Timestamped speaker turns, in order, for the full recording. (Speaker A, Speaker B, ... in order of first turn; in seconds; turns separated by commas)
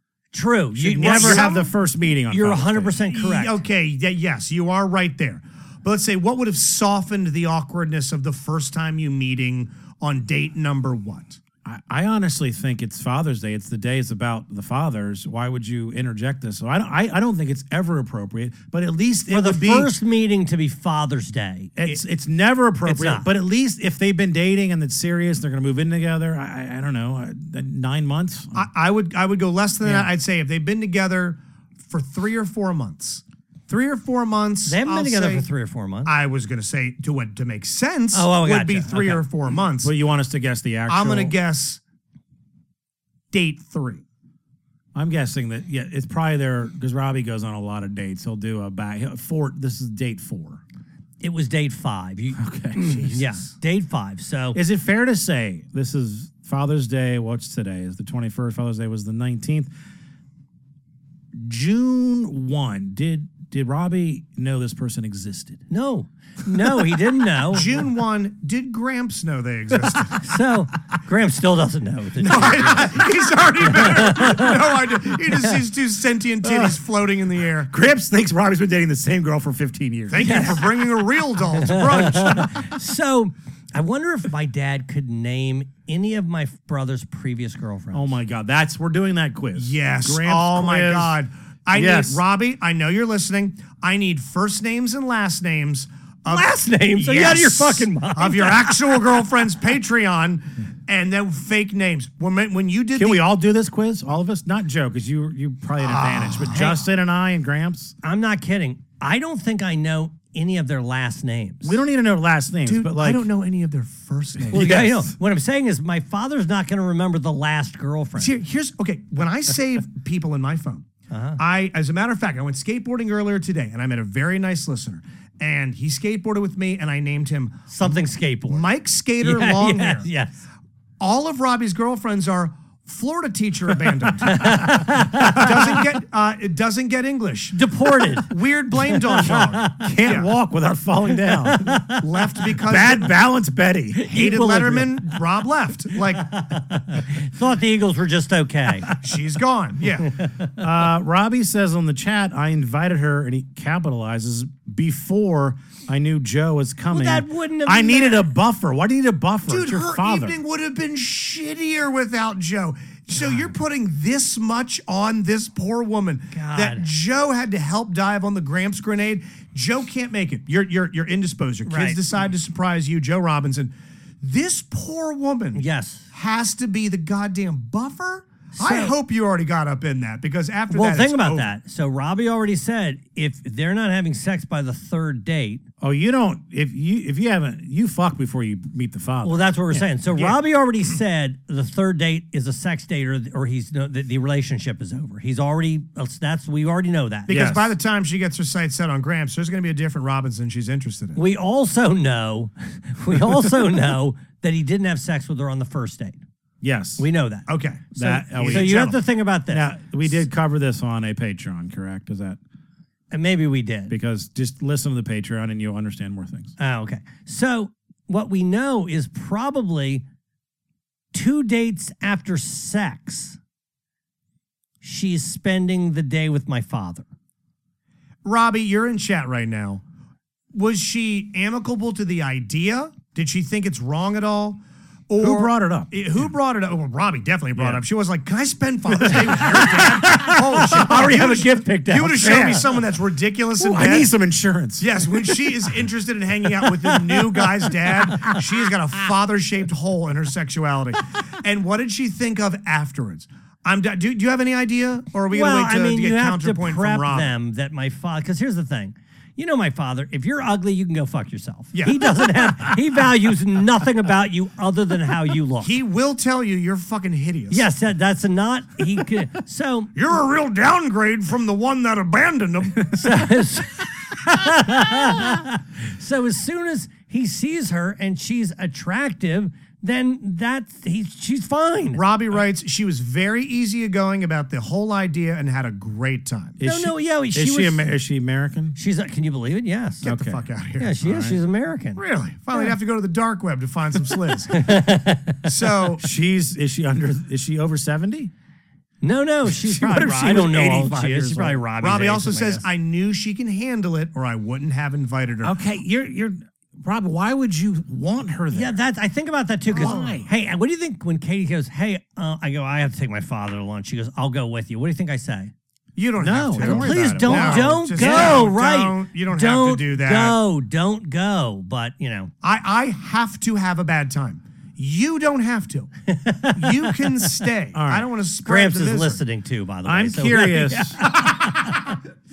Speaker A: 0.3-1.5, Speaker B: 0.7-3.0, Speaker C: 1.0-1.7, Speaker A: 2.3-3.6, Speaker C: 3.0-11.4, Speaker B: 11.6-19.9, Speaker A: 19.3-21.8, Speaker B: 21.8-28.6, Speaker A: 22.8-23.3, Speaker C: 28.5-35.5, Speaker A: 29.8-30.1, Speaker A: 34.6-36.1, Speaker C: 36.0-39.9, Speaker A: 38.1-39.2, Speaker B: 39.8-41.4, Speaker C: 40.9-41.8, Speaker C: 43.3-44.0, Speaker B: 44.9-50.6, Speaker A: 51.2-54.6, Speaker B: 52.4-53.1, Speaker C: 52.9-53.3, Speaker B: 54.5-59.7, Speaker B: 61.3-65.6, Speaker A: 65.7-67.7, Speaker C: 67.5-70.2, Speaker A: 70.2-73.0, Speaker C: 72.2-77.7, Speaker A: 73.7-74.6, Speaker B: 76.4-76.8, Speaker B: 77.7-80.5, Speaker C: 80.1-82.5, Speaker A: 80.2-80.8, Speaker A: 81.6-88.2, Speaker B: 87.9-91.2, Speaker C: 89.5-103.2, Speaker B: 91.7-92.2, Speaker A: 96.3-99.2, Speaker B: 102.9-107.9, Speaker C: 105.8-106.8, Speaker A: 108.0-111.8, Speaker B: 111.6-113.3, Speaker C: 112.7-114.9, Speaker B: 114.3-115.1, Speaker A: 114.5-118.3, Speaker C: 118.2-120.9, Speaker A: 121.1-121.4, Speaker C: 121.4-130.1, Speaker A: 127.7-128.7, Speaker A: 129.2-130.4, Speaker C: 131.0-137.6, Speaker A: 134.3-135.5, Speaker A: 137.5-138.3, Speaker C: 138.2-140.3, Speaker A: 138.9-139.8, Speaker B: 139.2-141.8, Speaker A: 141.4-141.9, Speaker C: 141.9-143.1, Speaker B: 142.6-144.7, Speaker C: 144.1-146.4, Speaker A: 144.1-145.0, Speaker A: 146.3-148.9, Speaker C: 149.0-150.1, Speaker B: 150.6-160.4, Speaker A: 156.9-158.3, Speaker C: 159.5-181.5, Speaker A: 166.3-166.9, Speaker A: 171.6-172.0, Speaker A: 175.5-176.1, Speaker A: 178.6-178.9, Speaker A: 180.7-185.6, Speaker B: 185.8-189.9, Speaker A: 189.2-197.5, Speaker C: 190.1-190.4, Speaker C: 197.3-201.2, Speaker B: 197.3-197.8, Speaker A: 201.2-206.2, Speaker B: 206.6-207.1, Speaker A: 207.0-207.5, Speaker C: 207.5-209.0, Speaker B: 207.9-208.9, Speaker A: 208.4-209.8, Speaker B: 209.5-212.4, Speaker A: 213.1-213.9, Speaker B: 213.9-216.5, Speaker A: 216.6-220.0, Speaker A: 221.1-223.4, Speaker A: 224.8-227.0, Speaker C: 228.2-229.8, Speaker C: 230.5-244.1, Speaker B: 235.2-236.0, Speaker B: 237.5-237.8, Speaker B: 239.0-242.7, Speaker A: 240.8-242.6, Speaker B: 243.6-245.6, Speaker C: 244.8-257.4, Speaker B: 247.8-248.2, Speaker A: 255.3-265.7, Speaker C: 261.7-262.1, Speaker C: 265.6-267.7, Speaker A: 267.5-269.9, Speaker C: 269.9-273.0, Speaker A: 272.9-282.0, Speaker C: 281.9-286.6, Speaker B: 286.6-288.8, Speaker A: 286.6-287.9, Speaker A: 288.7-290.1, Speaker B: 290.0-290.4, Speaker C: 290.0-291.0, Speaker A: 290.8-292.0, Speaker B: 291.0-291.4, Speaker C: 291.9-294.8, Speaker A: 294.5-295.4, Speaker C: 295.4-296.0, Speaker B: 296.0-298.3, Speaker A: 299.0-302.6, Speaker B: 299.4-301.6, Speaker C: 301.8-305.6, Speaker B: 305.4-308.8, Speaker A: 308.5-315.5, Speaker B: 309.7-310.3, Speaker C: 309.8-310.2, Speaker C: 315.9-320.4, Speaker B: 316.2-318.5, Speaker A: 316.6-322.3, Speaker C: 322.4-325.9, Speaker A: 326.1-327.1, Speaker C: 326.5-329.2, Speaker B: 327.7-328.1, Speaker A: 328.4-331.2, Speaker B: 329.8-331.0, Speaker C: 331.1-332.0